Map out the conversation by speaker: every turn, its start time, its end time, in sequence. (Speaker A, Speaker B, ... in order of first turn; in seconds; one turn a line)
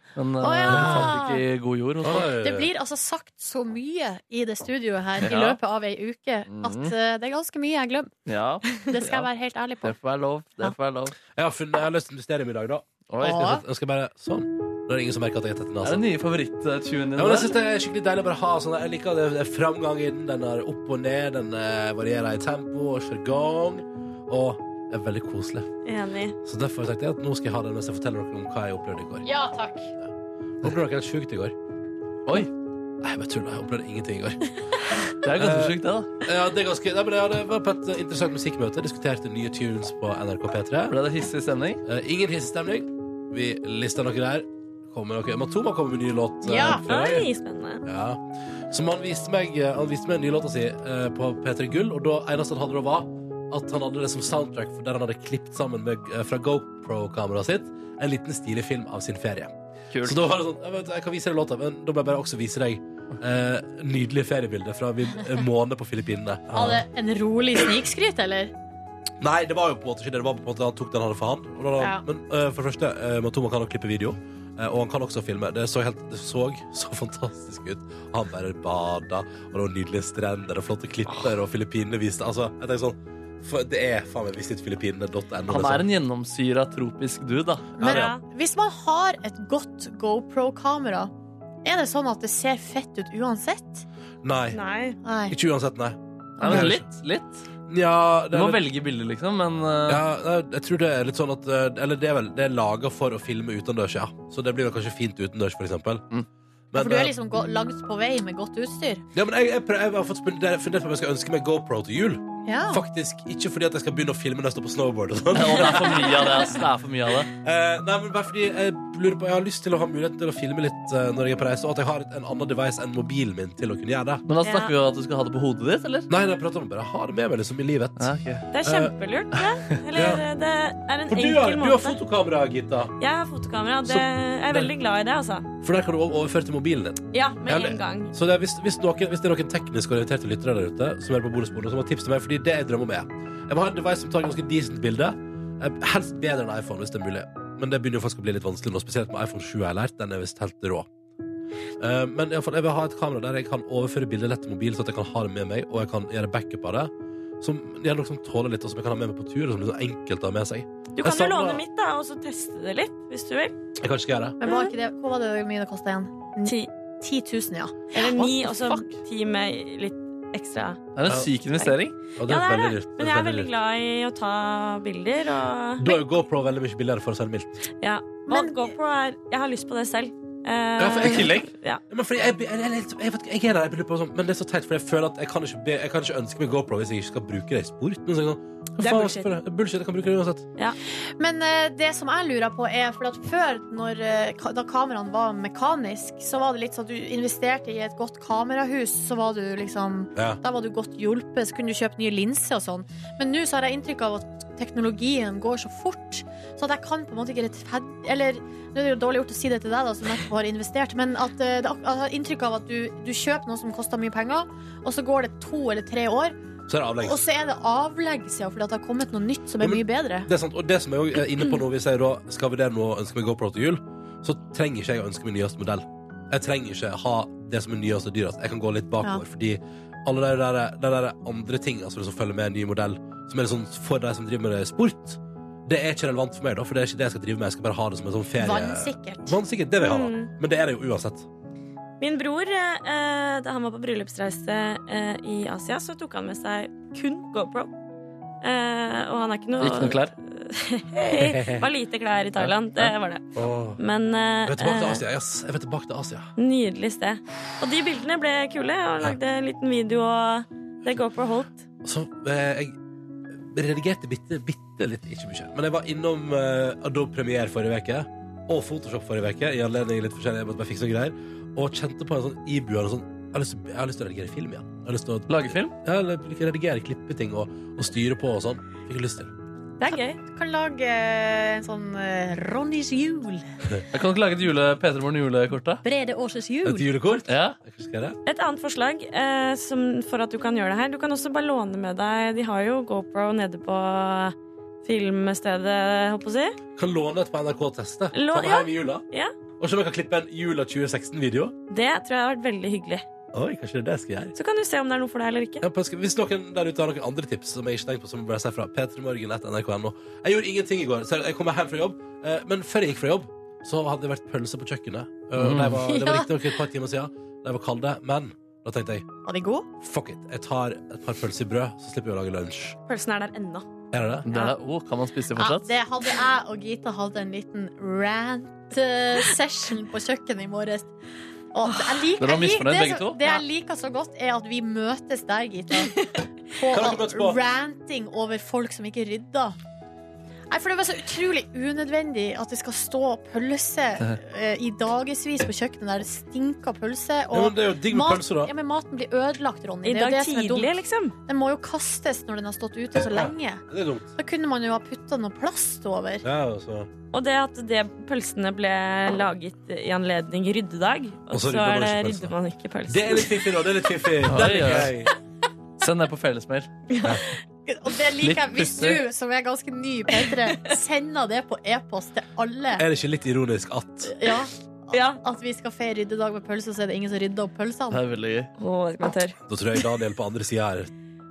Speaker A: 0.2-2.3
Speaker B: 0.4-1.4
Speaker C: 0.7-1.2
Speaker C: 2.0-2.7
Speaker B: 2.4-8.1
Speaker A: 5.2-5.6
Speaker A: 6.5-6.9
Speaker A: 8.3-9.3
Speaker B: 8.9-9.9
Speaker A: 9.8-11.2
Speaker C: 11.3-16.1
Speaker A: 13.1-13.6
Speaker B: 13.2-13.6
Speaker A: 15.8-17.6
Speaker C: 17.2-25.7
Speaker D: 25.9-26.4
Speaker C: 26.4-29.3
Speaker B: 29.2-29.9
Speaker C: 30.6-31.6
Speaker C: 33.0-34.4
Speaker A: 35.2-36.1
Speaker C: 35.3-41.0
Speaker A: 40.9-41.8
Speaker C: 41.9-47.3
Speaker B: 46.4-46.8
Speaker D: 46.8-47.8
Speaker C: 47.9-66.8
Speaker A: 59.9-60.2
Speaker B: 66.5-68.5
Speaker C: 69.2-85.9
Speaker A: 85.5-87.8
Speaker B: 87.8-91.1
Speaker C: 87.8-88.1
Speaker D: 87.8-88.2
Speaker B: 91.6-93.8
Speaker C: 94.2-94.6
Speaker D: 94.5-95.0
Speaker B: 95.0-95.3
Speaker C: 95.3-96.8
Speaker B: 96.4-96.7
Speaker A: 96.4-97.5
Speaker C: 97.7-98.6
Speaker A: 98.3-100.0
Speaker C: 99.9-106.0
Speaker C: 106.7-107.1
Speaker B: 106.8-109.0
Speaker C: 109.1-116.3
Speaker B: 112.5-112.8
Speaker A: 115.3-117.3
Speaker C: 117.4-124.2
Speaker A: 124.3-126.1
Speaker D: 124.4-124.7
Speaker C: 126.1-128.1
Speaker A: 128.0-128.4
Speaker D: 128.5-132.0
Speaker C: 128.6-128.9
Speaker C: 129.9-130.2
Speaker C: 131.1-132.9
Speaker D: 133.0-135.5
Speaker C: 133.8-134.7
Speaker C: 135.6-150.9
Speaker D: 137.1-138.1
Speaker C: 151.8-161.6
Speaker D: 160.9-163.6
Speaker C: 163.8-164.4
Speaker B: 164.4-168.9
Speaker D: 164.4-164.7
Speaker D: 166.4-166.7
Speaker D: 167.9-170.8
Speaker A: 170.9-171.9
Speaker C: 171.1-171.3
Speaker D: 171.6-176.0
Speaker C: 172.2-173.5
Speaker C: 175.8-177.6
Speaker D: 177.8-181.8
Speaker B: 178.3-178.7
Speaker C: 180.8-190.5
Speaker D: 188.8-189.3
Speaker B: 191.2-216.4
Speaker C: 216.7-217.2
Speaker B: 217.0-220.3
Speaker C: 219.6-241.3
Speaker B: 238.4-239.4
Speaker D: 239.8-240.3
Speaker D: 242.0-247.7
Speaker D: 248.4-253.2
Speaker A: 249.6-250.1
Speaker C: 251.2-251.7
Speaker A: 252.4-252.9
Speaker C: 253.3-253.8
Speaker D: 253.8-255.0
Speaker C: 254.4-256.3
Speaker D: 256.4-261.6
Speaker C: 261.8-262.8
Speaker C: 263.3-279.3
Speaker A: 275.3-275.7
Speaker B: 279.8-283.5
Speaker D: 279.8-280.2
Speaker A: 283.9-285.8
Speaker B: 285.8-286.9
Speaker C: 286.6-288.2
Speaker A: 287.3-287.6
Speaker D: 288.3-296.6
Speaker C: 296.8-299.1
Speaker D: 298.1-299.3
Speaker C: 299.6-301.6
Speaker D: 301.7-303.1
Speaker C: 303.3-304.4
Speaker D: 304.4-305.6
Speaker C: 305.6-319.1
Speaker A: 315.4-315.8
Speaker B: 315.9-316.3
Speaker B: 319.3-319.7
Speaker C: 319.8-322.8
Speaker D: 322.9-323.7
Speaker C: 323.9-324.3
Speaker A: 324.3-325.7
Speaker D: 324.3-324.6
Speaker B: 325.4-330.9
Speaker B: 331.5-336.0
Speaker A: 332.2-333.3
Speaker B: 336.5-339.6
Speaker C: 336.6-337.4
Speaker B: 340.5-353.6
Speaker C: 347.3-348.5
Speaker D: 349.9-351.1
Speaker C: 353.1-354.1
Speaker B: 354.2-356.2
Speaker C: 356.2-356.9
Speaker D: 357.1-363.7
Speaker C: 361.3-362.4
Speaker C: 362.9-365.1
Speaker A: 364.2-364.9
Speaker A: 365.8-366.7
Speaker D: 366.9-367.2
Speaker B: 367.7-372.8
Speaker A: 368.2-369.0
Speaker C: 372.8-374.1
Speaker B: 374.1-378.0
Speaker D: 374.9-375.2
Speaker A: 377.9-378.5
Speaker D: 378.6-379.4
Speaker C: 379.4-380.9